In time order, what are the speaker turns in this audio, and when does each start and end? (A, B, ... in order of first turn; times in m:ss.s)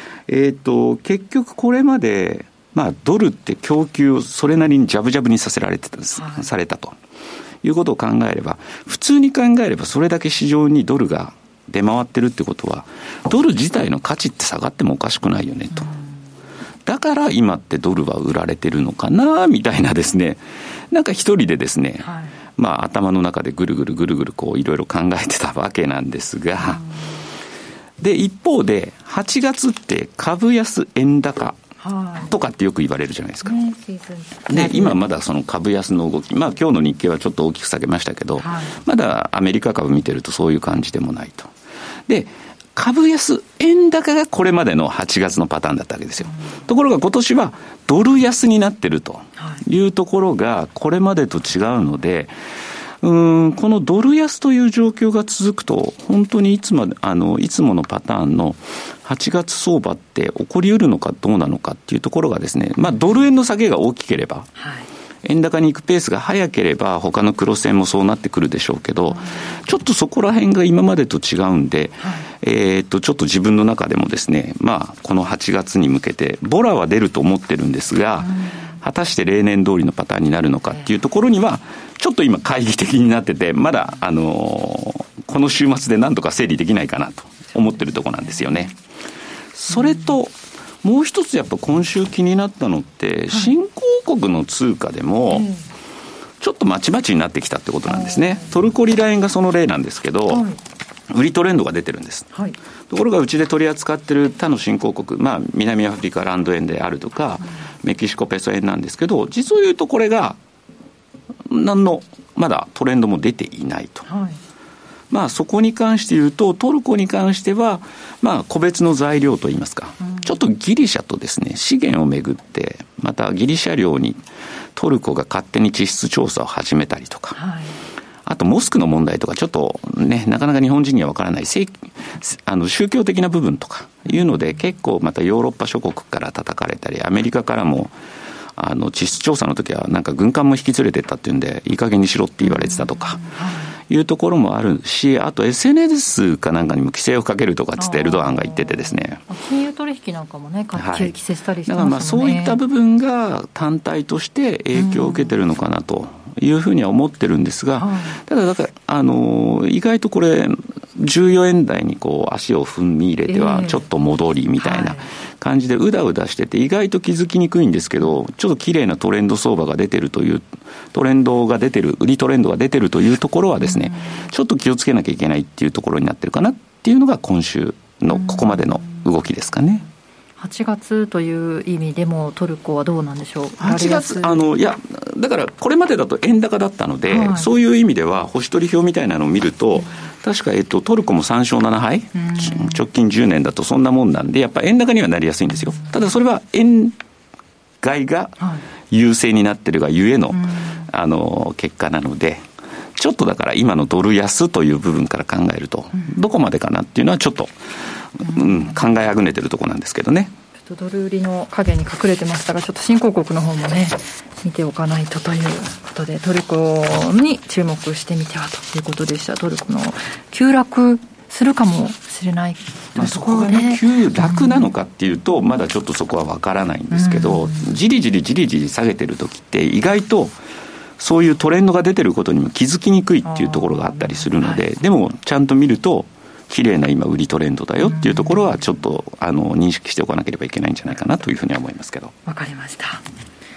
0:00.3-0:07.0 A
0:06.1-0:06.4 B
0:07.6-0:15.9 A
0:15.7-0:16.0 B
0:16.8-0:26.8 A
0:22.0-0:22.3 B
0:26.6-0:26.9 B
0:28.0-0:31.6 A
0:31.8-0:32.3 B
0:32.2-0:33.6 A
0:33.4-0:35.0 B
0:34.5-0:41.5 A
0:38.4-0:38.7 B
0:42.1-0:52.3 A
0:53.0-1:04.5 A
1:04.6-1:04.8 B
1:05.2-1:28.7 A
1:12.0-1:12.2 B
1:18.2-1:18.5 B
1:27.7-1:28.5 B
1:29.5-1:35.5 A
1:35.3-1:35.6 B
1:36.4-1:40.5 A
1:37.9-1:38.4 B
1:40.3-1:40.6 B
1:41.1-1:42.3 A
1:42.9-1:50.4 A
1:51.5-1:54.1 A
1:54.1-1:54.4 B
1:55.1-2:04.2 A
2:04.7-2:07.4 A
2:07.4-2:07.8 B
2:08.2-2:17.9 A
2:18.6-2:23.3 A
2:22.4-2:23.7 B
2:23.9-2:29.2 A
2:27.8-2:32.6 B
2:30.8-2:31.1 A
2:31.7-2:59.8 A
2:34.7-2:35.4 B
2:37.8-2:38.2 B
2:43.3-2:43.8 B
2:44.6-2:45.1 B
2:53.6-2:54.2 B
2:58.1-2:59.0 B
3:00.4-3:04.4 B
3:03.6-3:17.0 A
3:07.1-3:07.5 B
3:12.2-3:12.8 B
3:17.8-3:27.5 A
3:20.3-3:20.8 B
3:28.2-3:30.3 A
3:28.3-3:28.7 B
3:30.6-3:44.7 B
3:43.0-3:50.4 A
3:46.9-3:47.7 B
3:51.0-4:02.1 A
3:53.2-3:54.6 B
3:57.8-3:58.4 B
4:02.2-4:03.0 B